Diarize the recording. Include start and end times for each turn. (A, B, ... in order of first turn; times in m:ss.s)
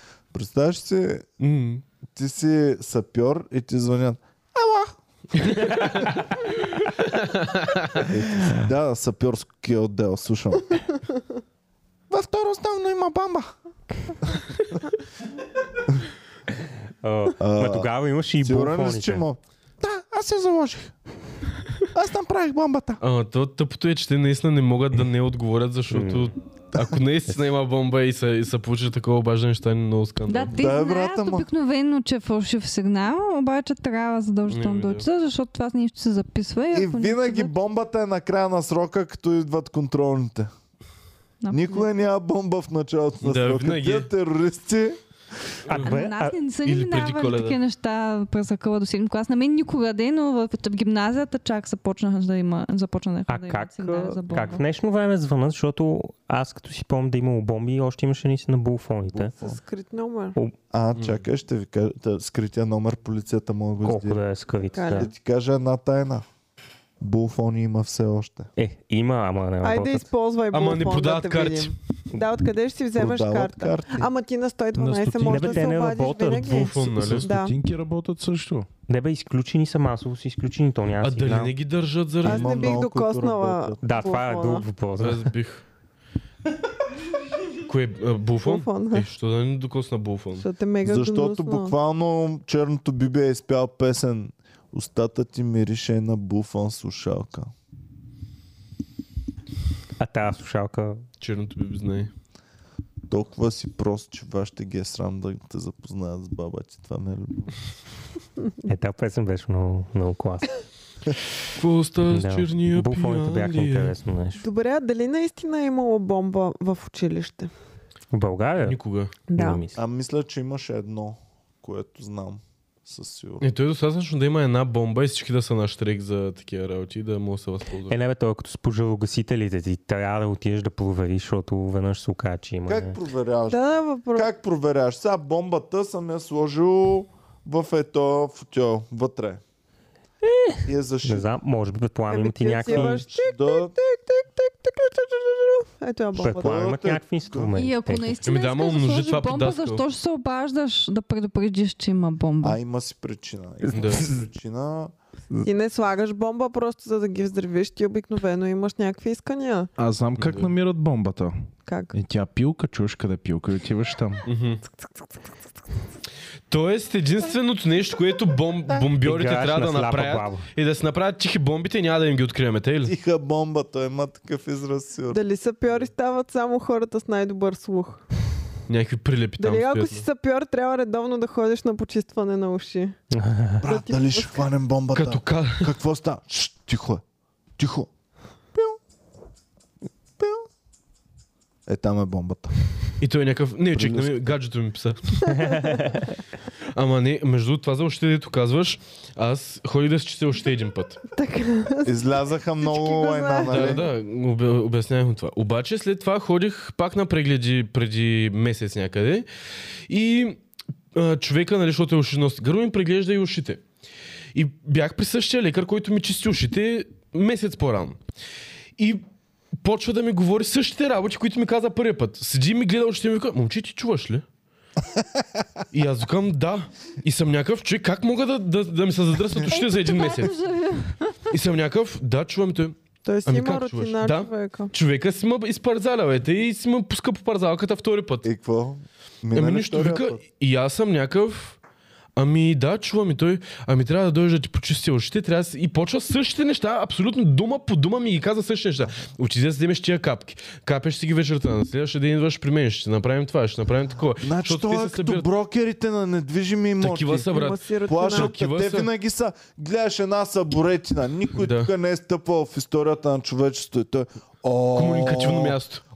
0:00.3-0:01.3 A
0:01.4-0:01.8 B
0:02.1-0:05.7 A
0:05.4-0:06.4 B
0:07.1-0:08.1 B
0:08.0-0:10.8 A
0:12.1-0:13.5 A
0:17.0-0:19.2 C
0:17.4-0:20.9 A
0:21.9-0:23.0 A
0:23.0-0:30.5 B
0:25.9-0:26.3 C
0:30.3-0:37.5 D
0:30.5-0:31.5 A
0:34.5-0:35.0 B
0:36.7-0:40.5 A
0:41.4-0:41.8 D
0:41.5-0:45.0 A
0:43.2-0:44.1 B
0:45.6-0:46.0 B
0:45.7-0:46.4 C
0:45.8-0:54.6 D
0:46.6-0:47.6 B
0:53.3-0:59.5 C
0:59.1-0:59.6 A
0:59.4-1:00.4 E
1:00.7-1:04.2 A
1:01.0-1:01.2 B
1:03.8-1:05.1 C
1:04.7-1:05.1 E
1:04.9-1:06.2 A
1:07.0-1:08.5 A
1:08.6-1:10.1 C
1:09.6-1:17.5 E
1:10.5-1:11.8 B
1:12.9-1:14.1 A
1:14.7-1:15.8 F
1:15.2-1:16.9 C
1:16.4-1:17.3 B
1:16.9-1:18.7 F
1:18.9-1:21.5 C
1:21.0-1:22.7 B
1:22.2-1:23.9 A
1:22.2-1:24.6 E
1:23.8-1:25.3 C
1:25.0-1:25.6 B
1:27.6-1:30.4 B
1:28.4-1:29.1 E
1:30.4-1:31.7 E
1:30.8-1:37.5 A
1:40.0-1:41.0 C
1:41.2-1:42.1 B
1:43.1-1:47.6 A
1:48.6-1:50.5 C
1:51.5-1:53.9 B
1:52.1-1:54.4 C
1:54.4-1:57.5 E
1:58.1-1:58.8 C
1:58.6-1:59.1 B
1:59.3-1:59.6 E
1:59.3-1:59.8 C
1:59.7-2:03.4 A
2:03.4-2:08.0 B
2:07.9-2:13.0 C
2:12.6-2:13.6 A
2:13.5-2:14.3 E
2:14.1-2:19.4 A
2:20.2-2:23.0 C
2:20.6-2:21.3 A
2:22.1-2:26.7 E
2:22.7-2:23.7 A
2:26.2-2:28.2 C
2:26.2-2:27.5 A
2:27.5-2:32.6 D
2:28.2-2:29.8 B
2:32.4-2:34.9 A
2:33.7-2:34.0 B
2:33.8-2:34.0 C
2:35.4-2:39.7 E
2:39.8-2:41.4 F
2:40.2-2:40.5 B
2:41.6-2:41.9 E
2:41.9-2:44.2 F
2:44.2-2:44.6 B
2:46.5-2:52.9 B
2:49.0-2:50.5 C
2:52.8-2:55.2 A
2:55.1-2:58.0 E
2:58.7-3:00.0 B
2:59.4-3:03.0 E
3:03.1-3:03.6 C
3:03.6-3:04.4 E
3:03.6-3:07.0 A
3:04.9-3:05.7 B
3:07.6-3:07.9 A
3:11.7-3:12.6 A
3:13.0-3:15.5 B
3:13.7-3:14.3 A
3:15.4-3:16.0 C
3:16.7-3:21.0 B
3:21.1-3:23.8 E
3:21.8-3:23.9 A
3:23.5-3:29.3 B
3:29.9-3:30.4 B
3:30.9-3:33.6 B
3:34.3-3:38.0 B
3:38.8-3:39.0 B
3:39.6-3:44.2 B
3:45.7-3:50.4 B
3:49.5-3:51.2 D
3:51.3-3:58.3 B
3:53.0-3:54.7 E
3:58.2-4:00.2 A
3:59.3-4:01.6 B
4:02.2-4:15.2 B
4:14.2-4:17.3 A
4:16.8-4:18.9 B
4:17.3-4:18.3 E
4:17.8-4:25.6 A
4:21.4-4:21.7 B
4:24.7-4:25.8 B